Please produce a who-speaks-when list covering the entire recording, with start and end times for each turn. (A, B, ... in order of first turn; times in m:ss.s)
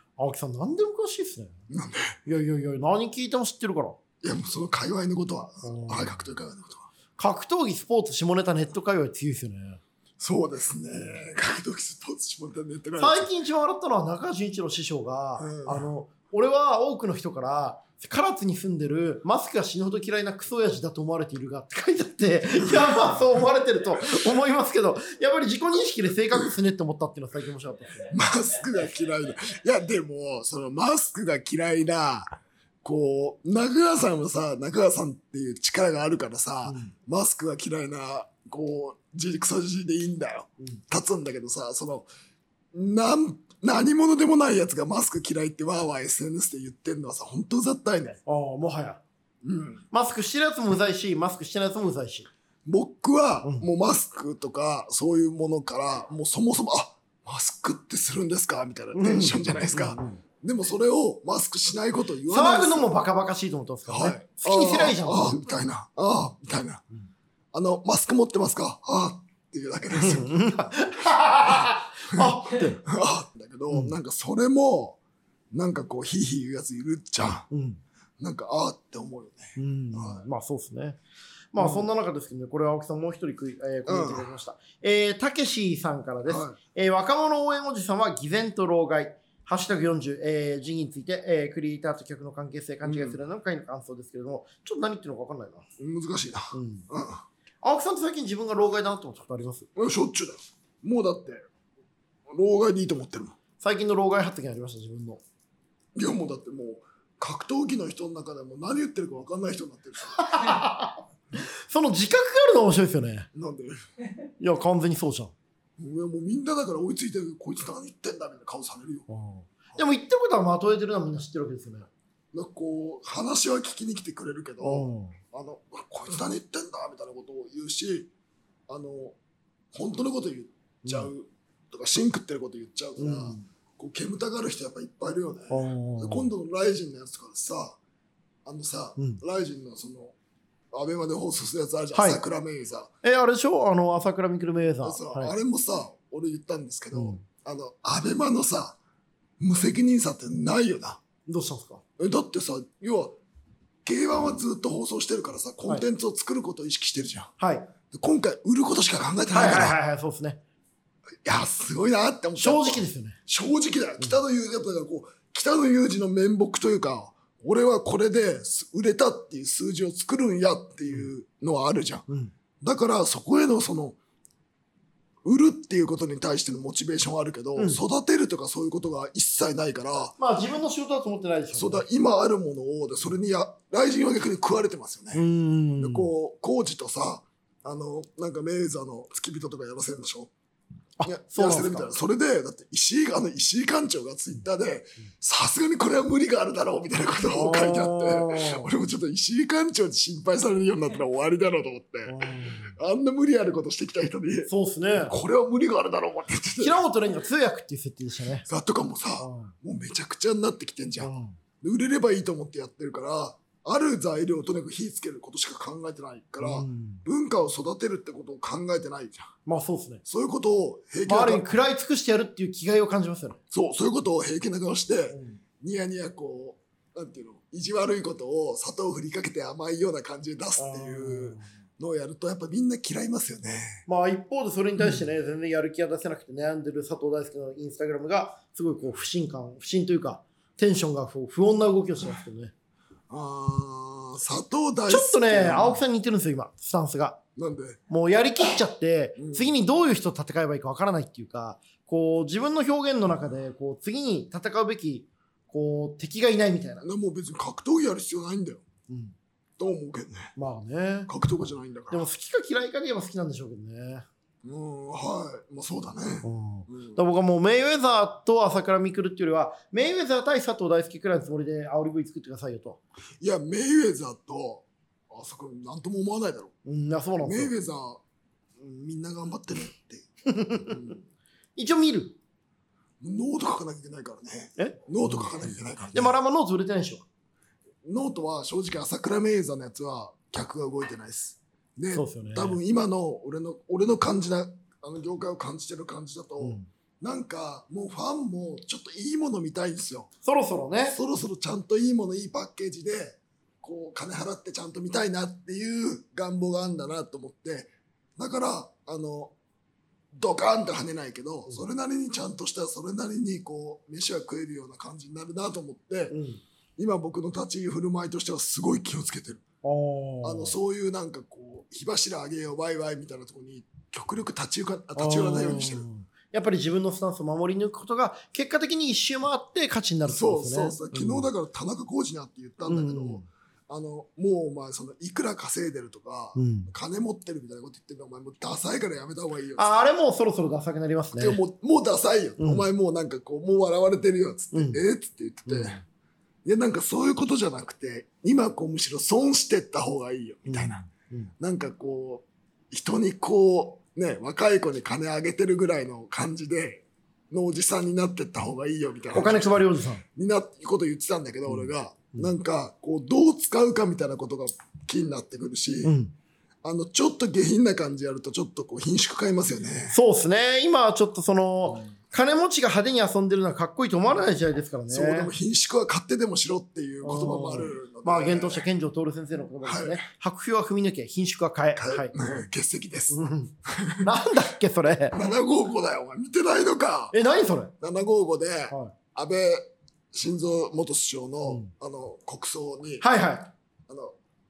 0:00.2-0:01.6 A
0:01.7-0:02.2 B
0:02.2-0:04.0 A
0:04.2-0:06.9 B
0:05.6-0:06.2 A
0:07.2-0:09.8 A
0:10.2-0:13.3 B
0:13.0-0:28.1 A
0:15.4-0:15.9 B
0:22.6-0:23.0 B
0:28.1-0:42.1 B
0:36.6-0:36.9 A
0:42.7-0:48.2 B
0:48.2-0:49.0 A
0:49.4-0:49.8 B
0:49.9-0:52.3 A
0:52.6-1:02.9 B
0:58.9-1:00.2 A
1:02.3-1:05.4 A
1:03.9-1:06.8 B
1:07.5-1:10.7 B
1:09.9-1:12.8 A
1:11.4-1:15.0 B
1:15.5-1:17.5 B
1:17.5-1:17.8 A
1:18.2-1:20.2 B
1:19.6-1:21.0 A
1:21.5-1:35.6 A
1:21.6-1:21.9 B
1:23.9-1:24.3 B
1:26.2-1:26.6 B
1:32.8-1:33.2 B
1:35.8-1:37.2 B
1:36.5-1:36.9 A
1:37.6-1:39.7 A
1:39.8-1:41.5 B
1:42.3-1:43.4 B
1:43.6-1:45.2 A
1:45.9-1:50.2 B
1:50.2-1:53.3 A
1:53.3-1:53.8 B
1:54.4-1:55.3 A
1:55.8-1:59.1 B
1:59.1-2:01.9 A
2:02.3-2:08.1 B
2:04.6-2:05.2 A
2:08.7-2:09.2 B
2:09.7-2:17.8 B
2:10.8-2:11.1 A
2:13.0-2:13.4 A
2:15.5-2:16.3 A
2:18.4-2:20.1 B
2:19.0-2:19.2 A
2:20.7-2:22.9 B
2:21.9-2:22.2 A
2:23.0-2:25.3 A
2:24.8-2:28.8 B
2:26.9-2:27.2 A
2:29.4-2:31.0 B
2:31.3-2:31.8 A
2:32.0-2:33.2 B
2:33.8-2:37.3 B
2:37.4-2:37.7 A
2:37.9-2:39.8 B
2:39.3-2:40.4 A
2:41.2-2:52.0 B
2:42.4-2:43.2 A
2:52.6-2:54.0 B
2:55.2-3:00.1 B
3:00.2-3:01.8 A
3:01.5-3:05.2 B
3:05.1-3:06.1 A
3:05.8-3:10.3 B
3:11.0-3:11.9 A
3:11.0-3:26.8 B
3:17.3-3:18.7 A
3:22.1-3:22.8 A
3:24.5-3:25.2 A
3:26.6-3:28.4 A
3:28.4-3:31.1 B
3:29.2-3:29.5 A
3:31.0-3:31.4 A
3:31.6-3:39.3 B
3:36.4-3:37.0 A
3:39.4-3:40.0 A
3:40.0-3:41.5 B
3:41.0-3:43.4 A
3:43.5-3:53.8 B
3:45.1-3:45.4 A
3:50.6-3:51.5 A
3:53.9-4:02.5 A
4:03.1-4:05.8 B
4:04.9-4:07.2 A
4:07.4-4:07.8 B
4:07.9-4:16.8 A
4:09.2-4:09.5 B
4:16.8-4:18.6 B
4:18.9-4:19.1 A
4:19.6-4:20.3 B
4:20.4-4:21.1 A
4:21.1-4:22.1 B
4:21.9-4:24.1 A
4:24.4-4:27.0 B
4:26.2-4:32.8 A
4:33.2-4:36.5 B
4:36.6-4:37.5 A
4:37.2-4:38.0 B
4:38.6-4:40.1 B
4:40.2-4:41.0 A
4:40.7-4:41.0 B
4:41.6-4:42.2 A
4:43.0-4:46.1 B
4:44.6-4:45.2 A
4:45.9-4:47.0 A
4:47.8-5:00.1 B
4:51.9-4:52.6 A
4:56.4-4:56.7 A
5:00.2-5:01.0 A
5:00.8-5:09.3 B
5:10.1-5:16.1 B
5:16.1-5:16.4 A
5:16.8-5:19.4 B
5:19.6-5:20.6 A
5:20.2-5:25.8 B
5:25.0-5:31.3 A
5:30.0-5:39.7 B
5:32.6-5:33.2 A
5:36.4-5:36.7 A
5:39.6-5:41.4 A
5:41.2-5:45.8 B
5:42.4-5:42.6 A
5:44.5-5:44.8 A
5:45.5-5:45.8 A
5:46.4-5:50.8 B
5:50.5-5:51.3 A
5:51.4-5:59.6 B
5:59.1-6:00.0 A
6:00.1-6:05.9 B
6:01.5-6:02.3 A
6:05.8-6:06.1 A
6:06.6-6:10.0 B
6:09.9-6:15.3 A
6:14.9-6:18.6 B
6:17.0-6:22.1 A
6:19.6-6:20.0 B
6:21.8-6:24.1 B
6:23.1-6:25.2 A
6:25.1-6:27.1 B
6:27.1-6:27.7 A
6:27.8-6:33.0 B
6:31.4-6:31.7 A
6:33.0-6:33.5 A
6:33.9-6:34.1 B